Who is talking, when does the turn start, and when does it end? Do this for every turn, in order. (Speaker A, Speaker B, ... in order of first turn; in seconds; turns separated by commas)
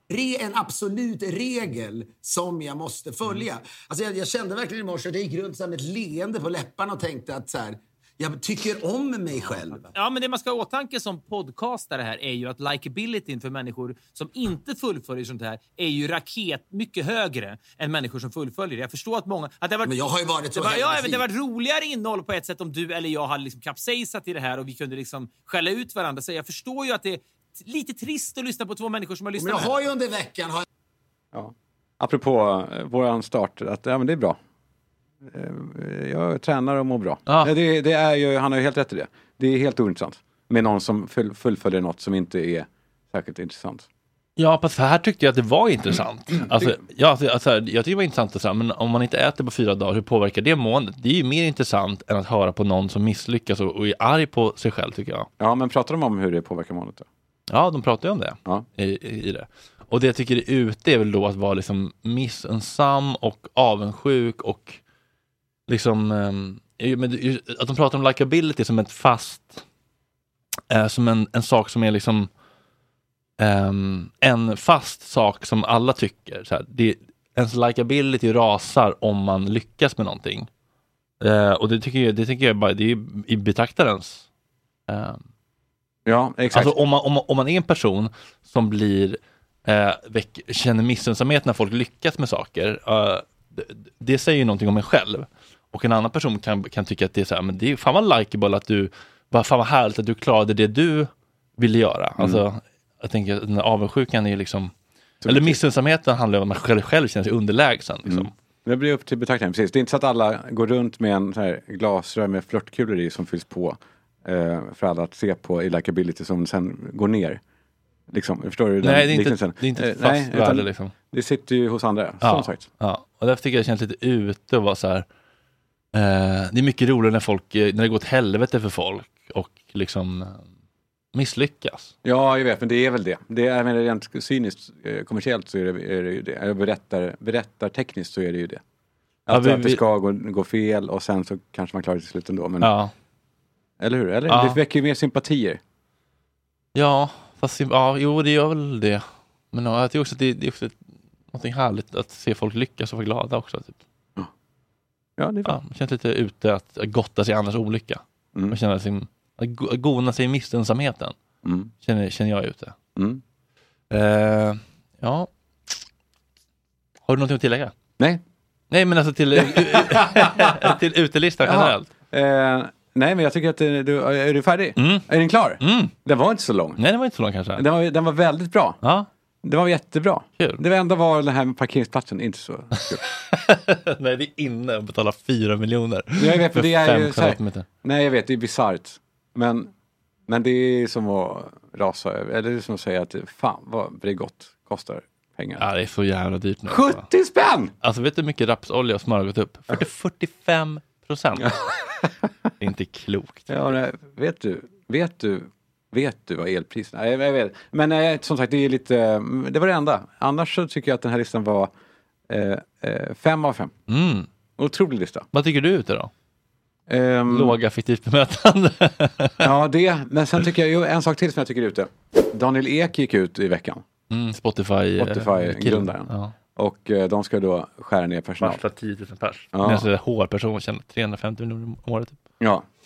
Speaker A: 0.1-9.9, Speaker B: 9.9-19.9, Speaker A: 19.8-21.2, Speaker B: 20.5-29.7, Speaker A: 29.4-30.6, Speaker C: 31.3-34.4, Speaker C: 35.2-43.9, Speaker D: 37.3-37.5, Speaker D: 44.4-55.3, Speaker C: 46.5-46.8, Speaker C: 55.4-57.0, Speaker D: 57.5-64.8, Speaker D: 65.7-69.6, Speaker D: 70.7-72.3, Speaker D: 73.4-80.5, Speaker D: 81.2-84.2, Speaker D: 84.9-85.2, Speaker C: 86.0-86.7, Speaker D: 86.5-104.7, Speaker C: 105.2-105.6, Speaker D: 105.2-108.3, Speaker C: 108.0-117.4, Speaker C: 118.1-122.6, Speaker D: 118.8-120.9, Speaker D: 122.2-125.0, Speaker D: 125.9-130.4, Speaker D: 131.1-131.9, Speaker C: 132.0-138.6, Speaker C: 139.3-142.7, Speaker D: 139.3-139.8, Speaker D: 142.6-142.9, Speaker C: 143.8-145.6, Speaker D: 144.3-144.6, Speaker D: 146.7-150.8, Speaker D: 151.3-153.8, Speaker C: 155.2-155.6, Speaker D: 155.4-161.1, Speaker C: 161.4-161.7, Speaker D: 161.8-162.7, Speaker C: 162.9-163.2, Speaker D: 163.9-165.7, Speaker D: 167.1-167.7, Speaker D: 168.7-171.9, Speaker C: 169.3-170.7, Speaker C: 171.4-176.8, Speaker D: 174.8-175.1, Speaker D: 175.6-175.9, Speaker D: 176.8-177.6, Speaker C: 177.6-178.8, Speaker C: 179.4-183.0, Speaker D: 182.8-187.7, Speaker C: 186.2-189.7, Speaker C: 190.3-195.6, Speaker D: 195.6-197.0, Speaker C: 196.7-197.7, Speaker D: 197.8-201.5, Speaker D: 202.6-203.7, Speaker C: 203.5-211.7, Speaker C: 212.3-213.7, Speaker D: 213.9-214.3, Speaker C: 214.6-215.3, Speaker D: 215.3-216.1, Speaker C: 216.9-217.6, Speaker D: 217.3-219.5, Speaker C: 219.4-223.8, Speaker D: 224.1-226.3, Speaker C: 225.0-228.6, Speaker D: 228.4-232.2, Speaker C: 229.5-229.9